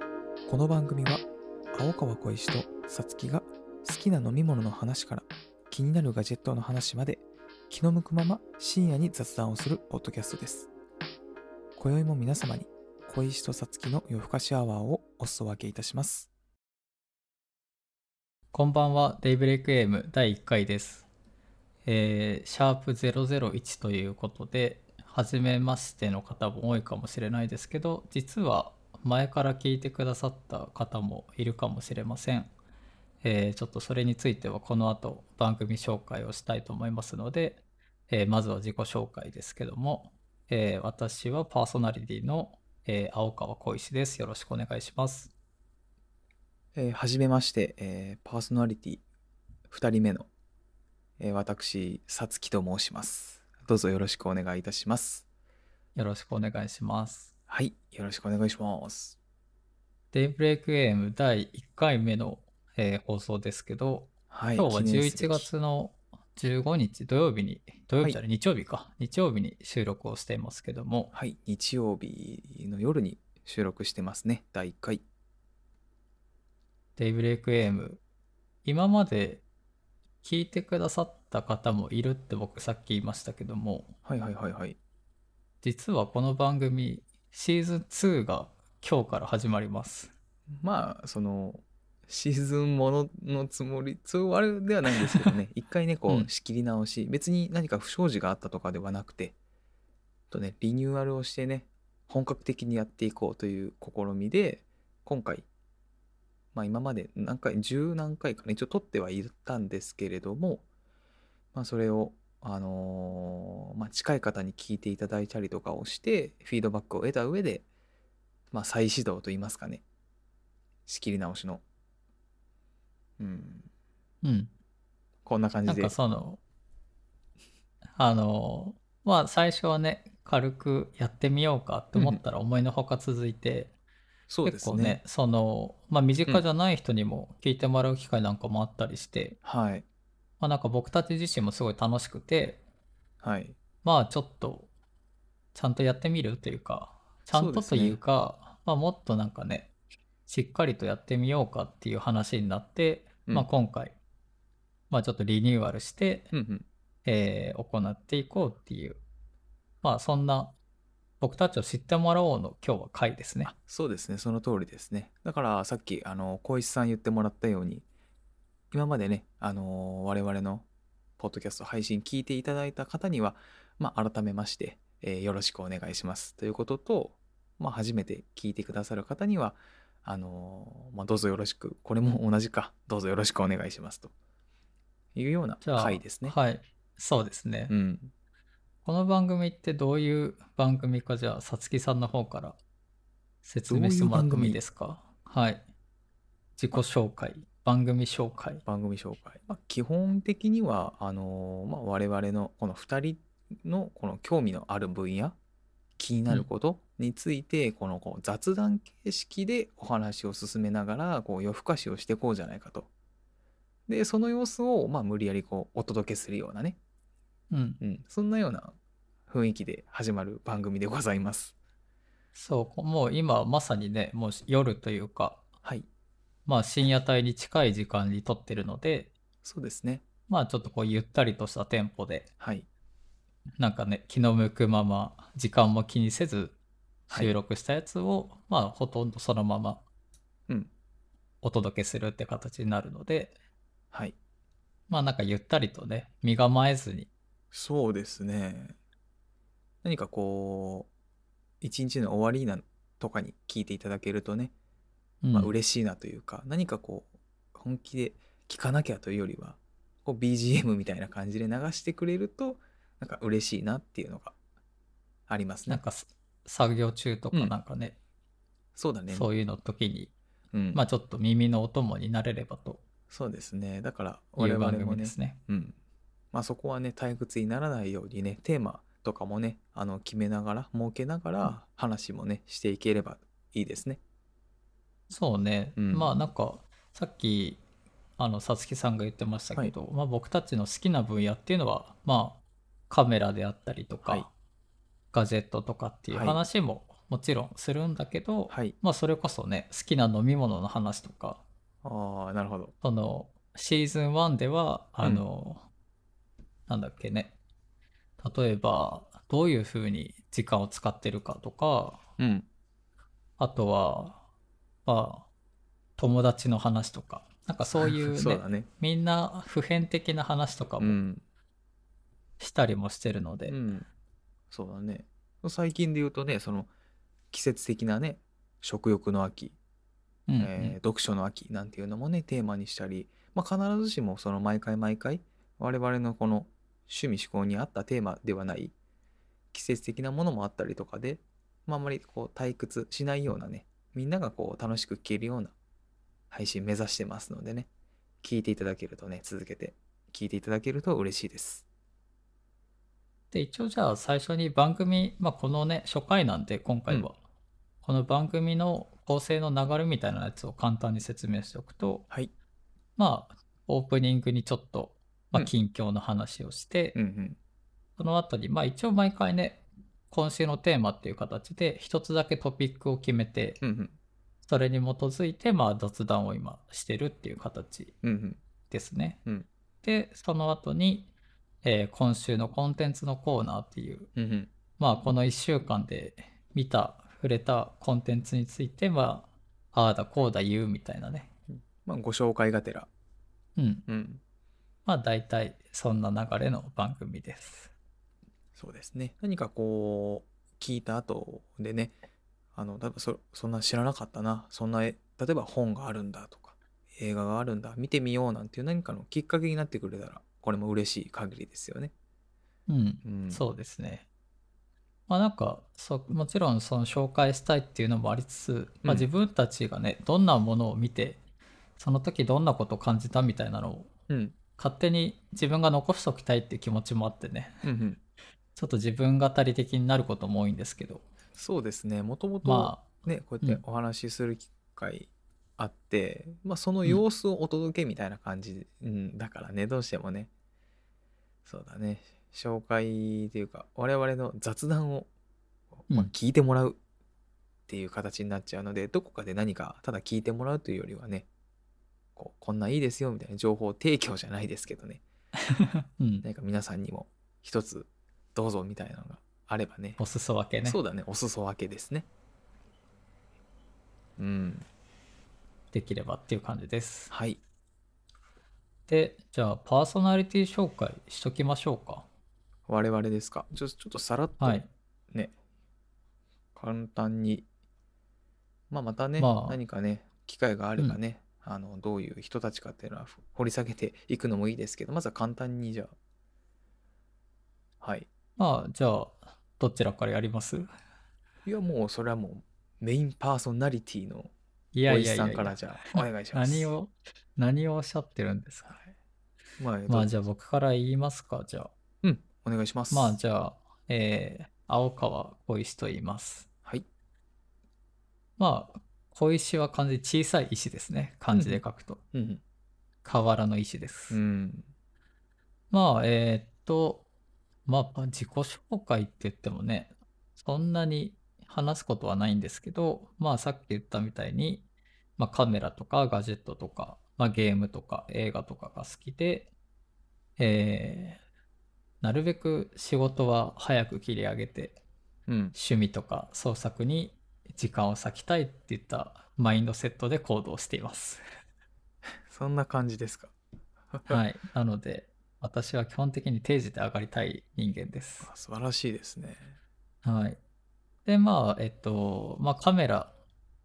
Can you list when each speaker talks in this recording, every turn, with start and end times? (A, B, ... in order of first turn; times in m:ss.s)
0:00.5-0:10.7 A
0:11.8-0:16.3 A
0:18.5-0:21.1 B
0:21.8-0:32.5 B
0:33.2-0:45.3 B
0:46.7-0:49.0 A
0:49.7-0:50.3 A
0:51.2-0:55.2 A
0:56.0-0:57.3 B
0:57.5-0:59.2 A
1:00.1-1:11.1 B
1:04.3-1:05.5 A
1:11.1-1:15.0 A
1:17.0-1:18.0 B
1:18.6-1:19.4 B
1:20.2-1:23.9 B
1:24.0-1:24.8 A
1:25.6-1:30.1 B
1:30.6-1:39.3 A
1:40.3-1:45.4 A
1:46.5-1:50.6 A
1:51.5-1:57.6 A
1:58.5-1:59.8 A
2:00.9-2:01.6 A
2:03.2-2:03.7 A
2:04.2-2:04.5 B
2:05.3-2:06.0 A
2:05.7-2:06.4 B
2:08.0-2:13.7 B
2:11.9-2:12.2 A
2:14.3-2:15.0 A
2:14.4-2:19.4 B
2:19.4-2:19.8 A
2:20.4-2:22.6 B
2:23.2-2:23.6 A
2:23.8-2:24.7 B
2:25.5-2:29.7 B
2:27.3-2:28.0 A
2:30.3-2:33.9 B
2:34.9-2:36.3 B
2:36.3-2:36.7 A
2:37.0-2:39.0 B
2:39.8-2:40.5 B
2:41.2-2:43.5 B
2:43.4-2:47.8 A
2:48.7-2:50.7 A
2:51.2-3:04.1 A
3:05.1-3:06.4 A
3:05.6-3:07.7 B
3:07.7-3:08.1 A
3:08.8-3:12.6 B
3:13.4-3:15.6 B
3:13.7-3:14.6 A
3:16.6-3:18.6 B
3:18.6-3:25.4 A
3:26.0-3:32.9 A
3:33.9-3:36.8 A
3:37.5-3:37.8 B
3:37.8-3:38.8 A
3:39.3-3:41.5 A
3:42.3-3:45.4 B
3:46.4-3:49.1 B
3:49.4-3:50.0 A
3:50.3-3:52.3 B
3:52.4-3:52.7 A
3:53.6-3:56.5 B
3:57.1-3:57.4 A
3:57.1-3:59.8 B
4:01.4-4:03.3 B
4:04.9-4:07.1 B
4:07.5-4:08.8 A
4:09.8-4:10.9 A
4:11.6-4:14.5 A
4:15.2-4:15.5 B
4:15.3-4:24.4 A
4:25.3-4:25.8 A
4:25.7-4:27.9 B
4:28.8-4:29.3 A
4:29.1-4:30.1 B
4:30.5-4:30.8 A
4:30.7-4:32.8 B
4:33.1-4:35.8 A
4:34.4-4:35.4 B
4:36.3-4:44.0 A
4:45.1-4:47.6 B
4:45.8-4:46.1 A
4:48.2-4:54.3 B
4:55.1-5:01.4 B
4:56.1-4:56.4 A
4:58.5-4:58.8 A
5:01.8-5:02.7 A
5:02.8-5:05.7 B
5:06.7-5:07.3 B
5:08.2-5:12.0 B
5:12.2-5:12.5 A
5:13.4-5:14.2 B
5:14.9-5:15.3 B
5:16.0-5:21.0 B
5:17.8-5:18.7 A
5:20.8-5:21.2 A
5:22.4-5:23.6 B
5:23.5-5:23.9 A
5:24.5-5:26.7 A
5:27.3-5:29.6 A
5:30.3-5:30.8 B
5:30.4-5:38.7 A
5:39.5-5:45.5 A
5:46.3-5:47.7 A
5:48.2-5:51.6 A
5:53.3-5:57.2 B
5:57.8-6:02.1 B
6:03.0-6:07.0 B
6:06.9-6:07.4 A
6:08.0-6:13.6 B
6:13.6-6:14.0 A
6:14.4-6:18.0 B
6:18.0-6:18.4 A
6:18.7-6:19.2 B
6:19.8-6:21.1 B
6:21.6-6:24.1 B
6:24.2-6:24.5 A
6:24.8-6:31.3 B
6:31.6-6:32.9 A
6:33.6-6:33.9 B
6:33.9-6:34.2 A
6:34.9-6:37.7 B
6:38.6-6:42.0 A
6:42.6-6:51.9 A
6:52.7-6:54.0 B
6:53.0-6:53.4 A
6:55.1-7:01.2 B
7:01.8-7:03.9 B
7:04.1-7:04.4 A
7:04.6-7:07.6 B
7:07.6-7:08.0 A
7:08.6-7:11.0 B
7:11.4-7:20.3 A
7:12.4-7:13.6 B
7:21.4-7:25.1 A
7:25.9-7:26.8 A
7:27.7-7:31.3 A
7:32.2-7:35.0 A
7:35.5-7:36.2 B
7:36.2-7:40.0 A
7:40.0-7:40.8 B
7:40.6-7:42.1 A
7:44.2-7:44.7 A
7:45.7-7:47.1 B
7:47.1-7:47.4 A
7:48.9-7:52.1 B
7:52.7-7:55.3 A
7:54.4-7:54.7 B
7:56.6-7:57.5 A
7:58.7-8:05.9 A
7:59.2-7:59.6 B
8:07.8-8:08.1 A
8:08.4-8:10.7 B
8:11.4-8:14.3 A
8:14.7-8:18.7 B
8:14.9-8:16.7 A
8:19.6-8:20.1 A
8:19.9-8:21.7 B
8:22.0-8:23.2 A
8:22.9-8:26.5 B
8:28.4-8:32.0 B
8:31.3-8:31.6 A
8:32.1-8:32.4 A
8:33.0-8:34.2 B
8:34.1-8:34.7 A
8:35.7-8:37.0 B
8:37.6-8:44.6 B
8:45.2-8:49.5 B
8:50.4-8:51.2 B
8:52.0-8:54.8 B
8:55.3-8:55.6 A
8:55.6-9:01.2 B
9:02.2-9:03.3 A
9:03.9-9:04.2 A
9:04.1-9:08.3 B
9:08.2-9:09.6 A
9:10.0-9:10.4 B
9:11.1-9:13.1 B